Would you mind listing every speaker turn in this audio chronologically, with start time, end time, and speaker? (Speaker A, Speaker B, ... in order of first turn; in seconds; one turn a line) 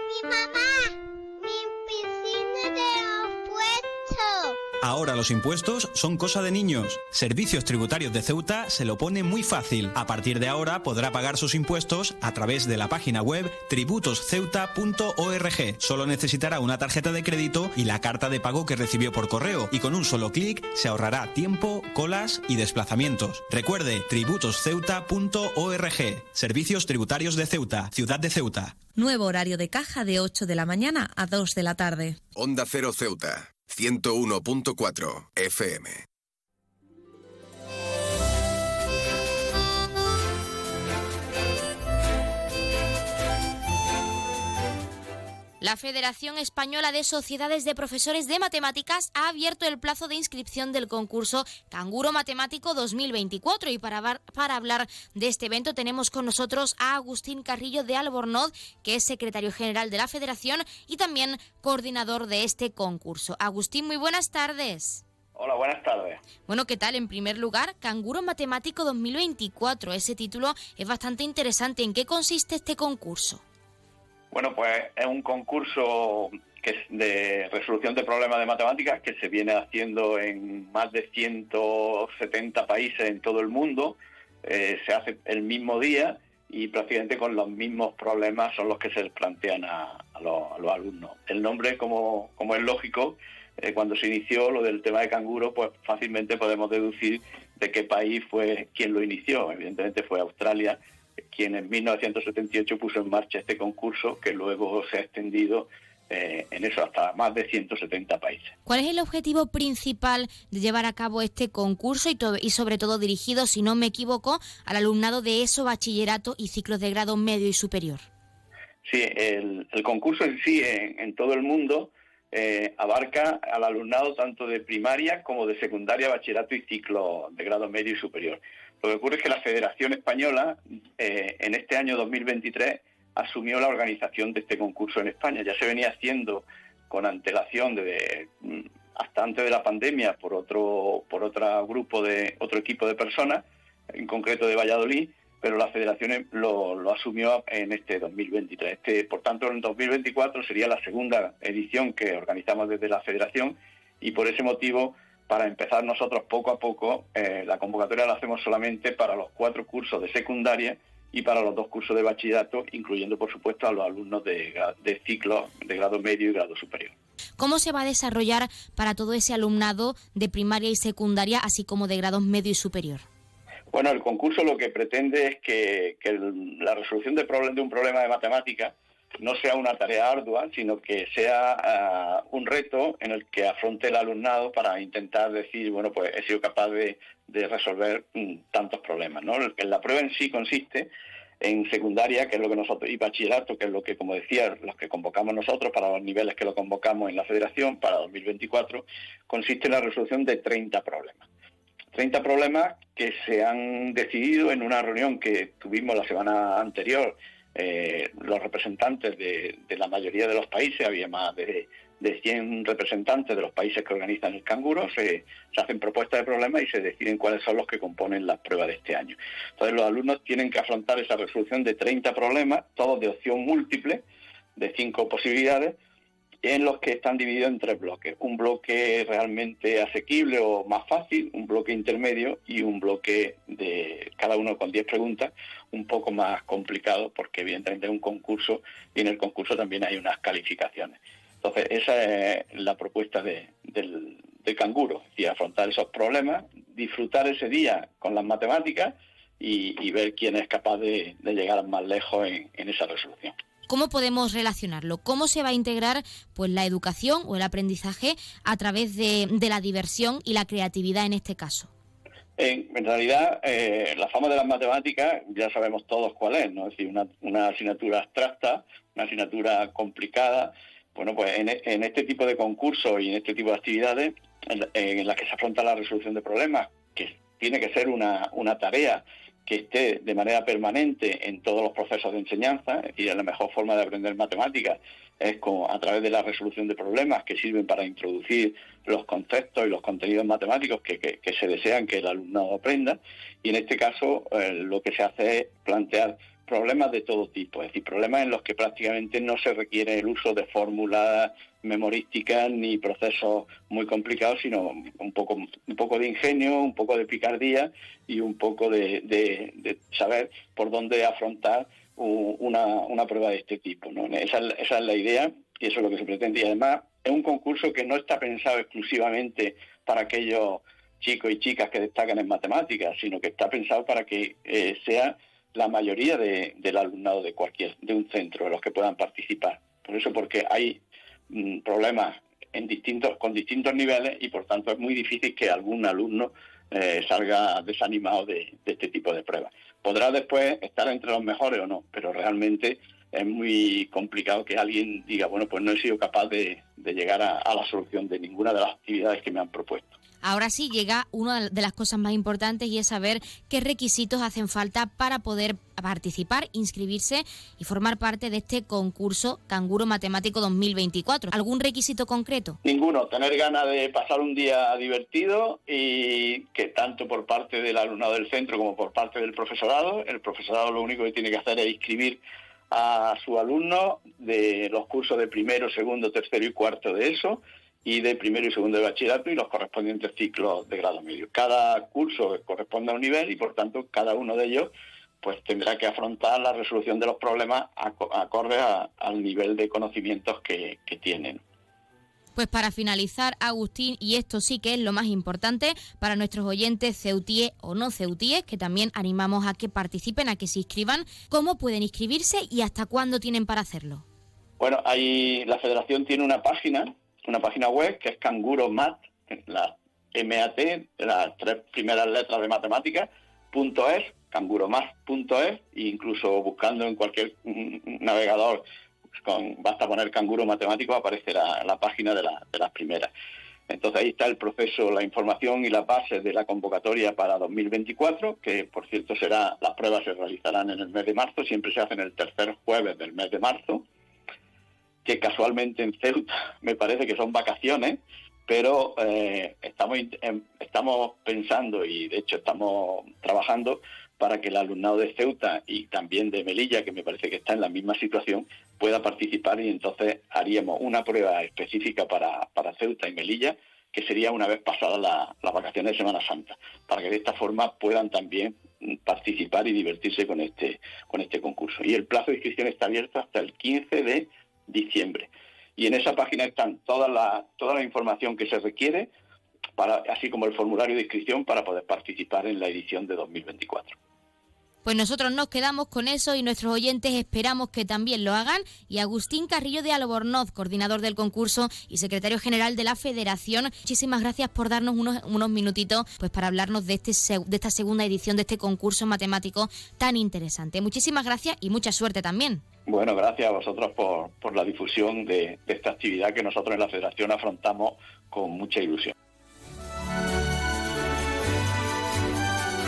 Speaker A: 4.8-28.7
Speaker B: 29.0-32.1
Speaker C: 32.4-36.0
Speaker D: 45.6-65.0
Speaker E: 65.3-66.2
Speaker D: 66.5-73.4
Speaker E: 74.3-100.8
Speaker E: 101.3-108.5
Speaker D: 108.7-118.0
Speaker E: 118.8-143.4
Speaker E: 143.9-166.9
Speaker D: 167.4-173.0
Speaker E: 173.7-190.9
Speaker E: 191.4-201.2
Speaker E: 201.9-224.0
Speaker E: 224.6-225.8
Speaker E: 226.4-253.3
Speaker D: 253.7-261.7
Speaker E: 262.4-349.9
Speaker D: 350.2-362.6
Speaker E: 362.6-391.4
Speaker D: 392.4-404.0
Speaker E: 404.6-418.6
Speaker E: 419.2-423.1
Speaker E: 423.7-433.8
Speaker E: 435.0-469.1
Speaker E: 469.8-473.9
Speaker D: 474.8-492.6
Speaker E: 492.9-499.1